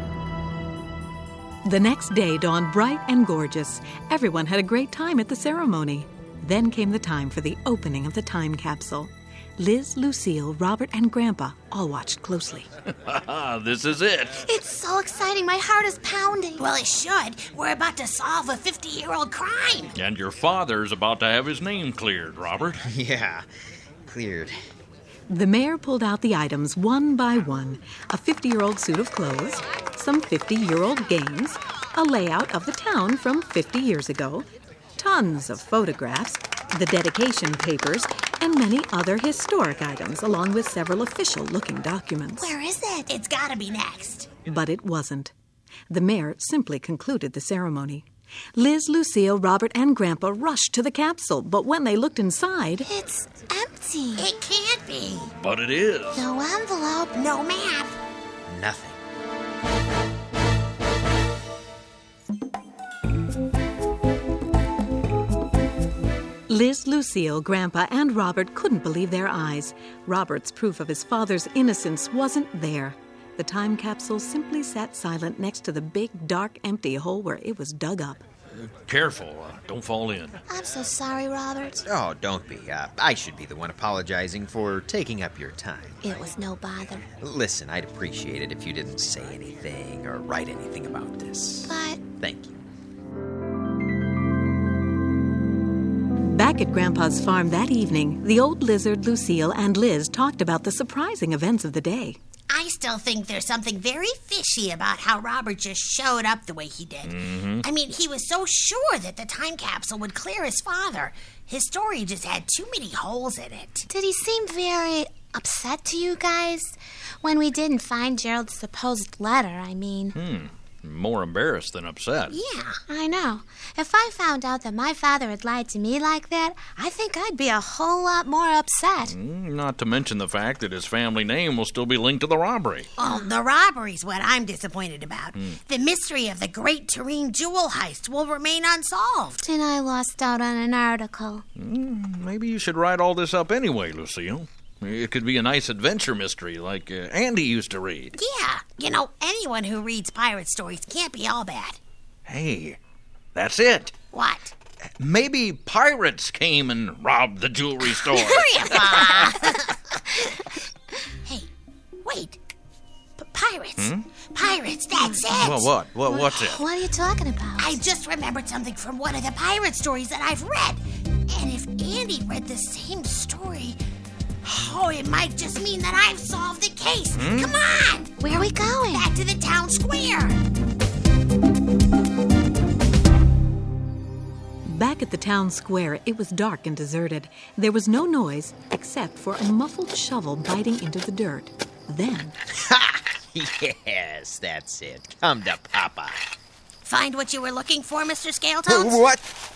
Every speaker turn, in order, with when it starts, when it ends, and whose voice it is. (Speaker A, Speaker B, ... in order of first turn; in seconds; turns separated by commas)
Speaker A: 1.6-12.7, Speaker B: 12.9-14.4, Speaker C: 14.4-16.7, Speaker D: 16.6-19.9, Speaker B: 19.9-22.8, Speaker E: 22.8-23.5, Speaker E: 24.1-24.6, Speaker A: 25.3-42.5, Speaker C: 42.4-43.1, Speaker D: 43.1-44.3, Speaker A: 44.5-45.3, Speaker A: 45.9-52.9, Speaker C: 52.8-54.3, Speaker D: 54.2-55.3, Speaker B: 55.4-56.3, Speaker C: 56.1-57.2, Speaker D: 57.1-58.0, Speaker E: 58.5-59.0, Speaker A: 66.5-78.2, Speaker B: 78.6-80.4, Speaker C: 80.5-81.8, Speaker E: 81.9-86.0, Speaker C: 86.0-87.1, Speaker E: 87.2-92.6, Speaker C: 91.7-92.0, Speaker A: 96.2-102.2, Speaker D: 102.5-113.9, Speaker B: 107.0-107.7, Speaker C: 113.9-120.2, Speaker B: 120.2-122.4, Speaker D: 122.3-122.8, Speaker C: 122.9-129.2, Speaker B: 129.0-132.9, Speaker D: 133.0-139.4, Speaker C: 133.0-133.3, Speaker C: 139.4-141.4, Speaker B: 141.6-148.2, Speaker D: 148.2-151.8, Speaker B: 152.3-152.8, Speaker B: 153.3-153.9, Speaker D: 154.1-154.5, Speaker B: 155.0-159.3, Speaker D: 157.9-160.3, Speaker D: 162.0-162.6, Speaker D: 163.2-165.7, Speaker B: 163.8-164.1, Speaker B: 165.4-166.6, Speaker C: 166.1-167.8, Speaker D: 167.6-173.8, Speaker D: 174.4-178.2, Speaker B: 177.1-177.6, Speaker C: 178.2-179.1, Speaker D: 178.9-180.4, Speaker A: 184.7-192.4, Speaker E: 192.5-196.3, Speaker D: 196.8-199.1, Speaker E: 198.7-199.4